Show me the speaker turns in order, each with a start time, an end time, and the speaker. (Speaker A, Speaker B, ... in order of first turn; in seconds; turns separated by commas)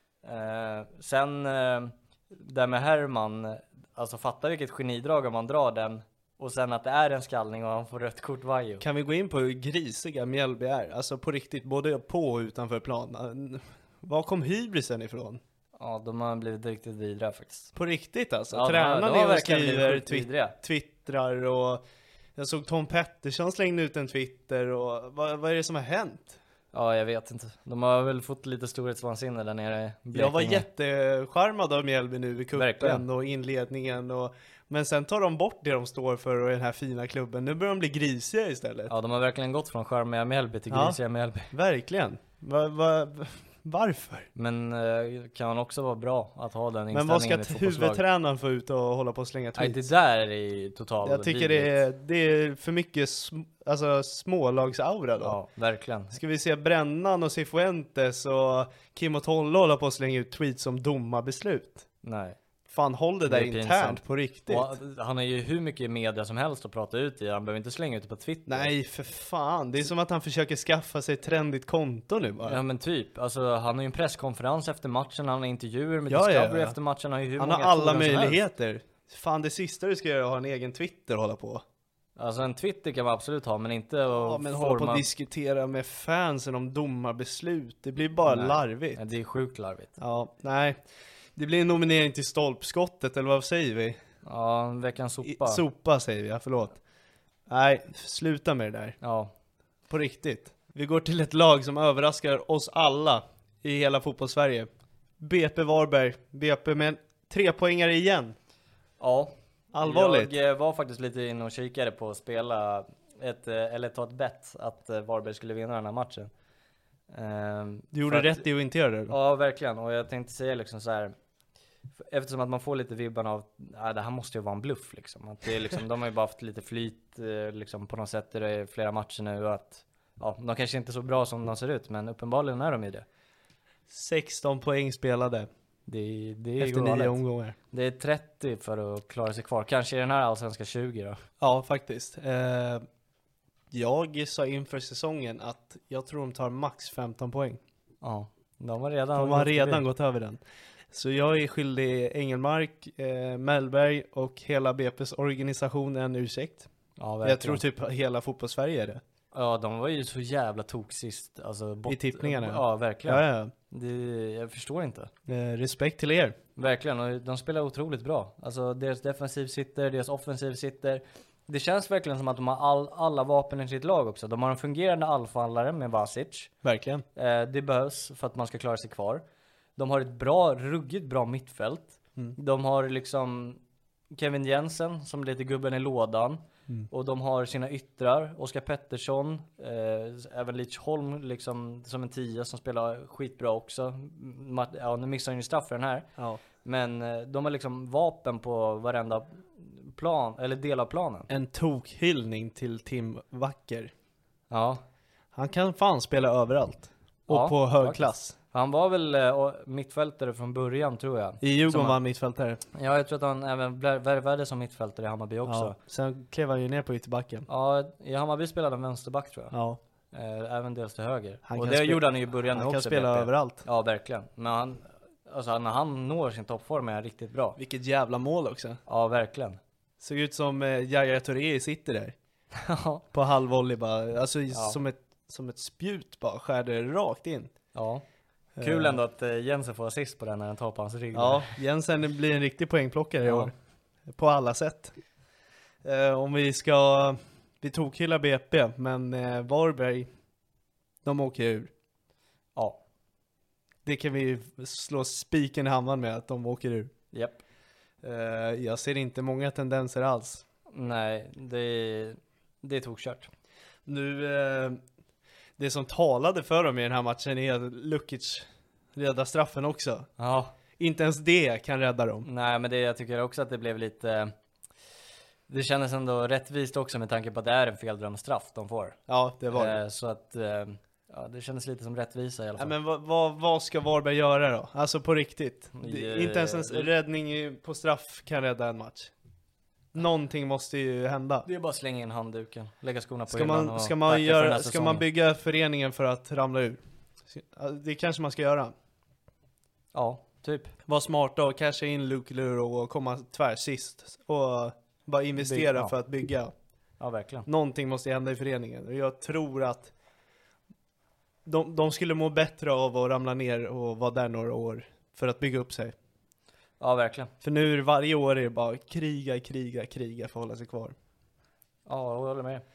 Speaker A: 0.2-8.8, Speaker B: 8.8-15.4, Speaker A: 15.8-17.7, Speaker B: 17.7-21.8, Speaker A: 18.5-20.6, Speaker B: 22.4-26.4, Speaker A: 26.7-30.7, Speaker B: 30.1-38.9, Speaker A: 32.5-33.0, Speaker A: 38.9-41.5, Speaker B: 40.7-41.0, Speaker B: 41.5-44.3, Speaker A: 44.3-48.0, Speaker B: 46.9-49.9, Speaker A: 49.6-51.8, Speaker B: 51.0-55.4, Speaker A: 55.2-56.2, Speaker B: 56.1-61.8, Speaker A: 62.0-62.4, Speaker B: 62.7-64.8, Speaker A: 63.2-68.7, Speaker B: 68.5-72.6, Speaker A: 72.4-78.4, Speaker B: 76.1-76.8, Speaker B: 77.4-81.6, Speaker A: 82.2-85.0, Speaker B: 84.1-89.0, Speaker A: 88.2-89.9, Speaker B: 90.0-90.8, Speaker B: 91.3-94.0, Speaker A: 94.2-95.6, Speaker B: 95.2-96.8, Speaker B: 97.5-99.0, Speaker A: 99.0-99.3, Speaker B: 99.9-104.7, Speaker B: 105.2-108.3, Speaker A: 109.0-116.3, Speaker B: 109.7-110.3, Speaker A: 117.1-118.4, Speaker B: 117.9-119.2, Speaker A: 119.1-121.1, Speaker A: 122.1-133.1, Speaker B: 133.9-135.5, Speaker A: 135.9-137.2, Speaker B: 136.6-137.6, Speaker A: 137.7-141.2, Speaker B: 141.4-142.8, Speaker B: 143.7-147.6, Speaker A: 148.0-149.8, Speaker B: 149.1-150.4, Speaker B: 150.9-156.7, Speaker A: 157.0-157.6, Speaker B: 157.2-159.0, Speaker A: 159.3-165.1, Speaker B: 161.9-163.5, Speaker B: 165.3-166.3, Speaker A: 166.6-176.5, Speaker B: 176.6-177.0, Speaker A: 177.2-179.2, Speaker A: 179.8-183.6, Speaker A: 184.1-196.1, Speaker A: 196.6-201.3, Speaker B: 201.3-203.9, Speaker A: 204.5-204.8, Speaker B: 205.3-208.3, Speaker A: 207.3-212.0, Speaker B: 211.4-212.6, Speaker A: 212.7-215.8, Speaker B: 215.4-217.5, Speaker A: 217.5-219.5, Speaker B: 219.5-219.8, Speaker A: 220.1-227.6, Speaker B: 221.4-223.6, Speaker B: 227.6-228.8, Speaker A: 228.9-229.6, Speaker B: 230.0-232.1, Speaker A: 232.6-233.0, Speaker B: 233.1-237.5, Speaker A: 234.5-234.8, Speaker A: 237.7-238.0, Speaker B: 238.6-239.0, Speaker A: 238.6-241.6, Speaker B: 241.1-243.5, Speaker A: 243.2-243.5, Speaker B: 244.1-244.9, Speaker B: 245.8-250.1, Speaker B: 251.0-251.7, Speaker A: 252.5-252.8, Speaker B: 253.8-256.9, Speaker A: 257.1-257.4, Speaker B: 258.0-260.4, Speaker A: 260.7-263.3, Speaker B: 263.9-264.8, Speaker B: 265.6-270.1, Speaker A: 270.2-270.5, Speaker B: 270.8-272.3, Speaker A: 272.2-274.3, Speaker A: 275.5-279.0, Speaker B: 279.1-279.8, Speaker A: 279.5-282.7, Speaker B: 282.6-289.1, Speaker A: 285.7-286.9, Speaker B: 289.9-291.5, Speaker A: 291.4-295.1, Speaker B: 293.3-298.7, Speaker A: 299.9-300.7, Speaker B: 300.9-306.5, Speaker A: 305.4-305.9, Speaker A: 307.0-307.5, Speaker B: 307.4-309.9, Speaker B: 311.4-315.9, Speaker A: 316.8-317.3, Speaker B: 317.4-320.9, Speaker A: 321.9-322.6